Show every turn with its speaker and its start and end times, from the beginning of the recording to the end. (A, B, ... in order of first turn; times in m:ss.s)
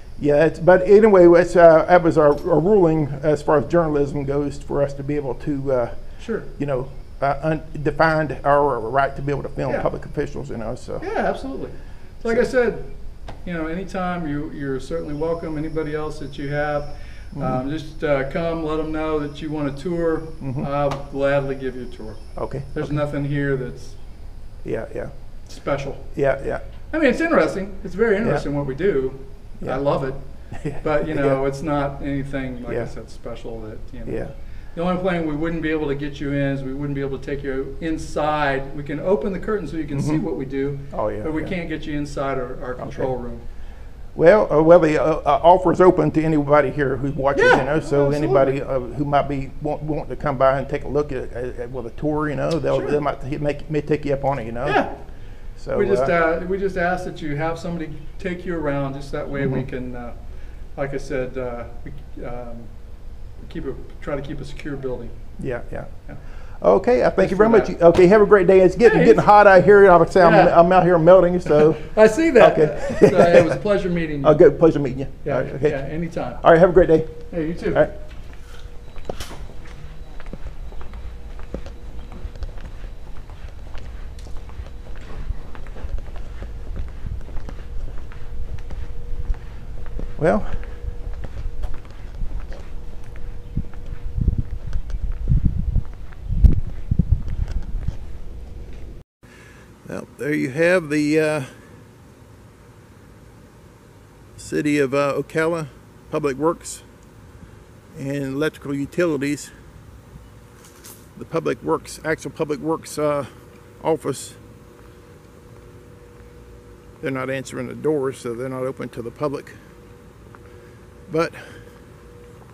0:00.2-0:11.0 A
0:06.2-0:06.5 B
0:11.0-0:24.0 B
0:17.3-0:17.6 A
0:20.4-0:20.7 A
0:22.4-0:23.0 A
0:24.6-0:25.1 A
0:25.4-0:26.2 B
0:26.1-0:26.6 A
0:26.9-0:43.4 B
0:30.5-0:31.4 A
0:34.0-0:34.3 A
0:39.9-0:40.2 A
0:40.9-0:41.5 A
0:42.8-0:43.1 A
0:44.1-0:54.8 A
0:47.3-0:48.6 B
0:52.7-0:53.0 B
0:54.6-0:55.1 B
0:55.6-0:56.1 A
0:55.7-1:00.2 B
0:59.4-0:59.6 A
1:00.7-1:02.8 B
1:03.4-1:05.2 B
1:05.4-1:05.9 A
1:06.6-1:13.6 A
1:07.2-1:07.7 B
1:08.8-1:09.3 B
1:10.2-1:10.6 B
1:11.5-1:14.4 B
1:14.2-1:15.8 A
1:15.2-1:16.4 B
1:16.4-1:17.9 A
1:17.3-1:17.9 B
1:30.2-1:30.9 A
1:39.8-1:41.8 A
1:44.4-1:46.8 A
1:47.9-1:49.5 A
1:51.1-1:54.4 A
1:57.0-1:59.6 A
2:01.1-2:01.6 A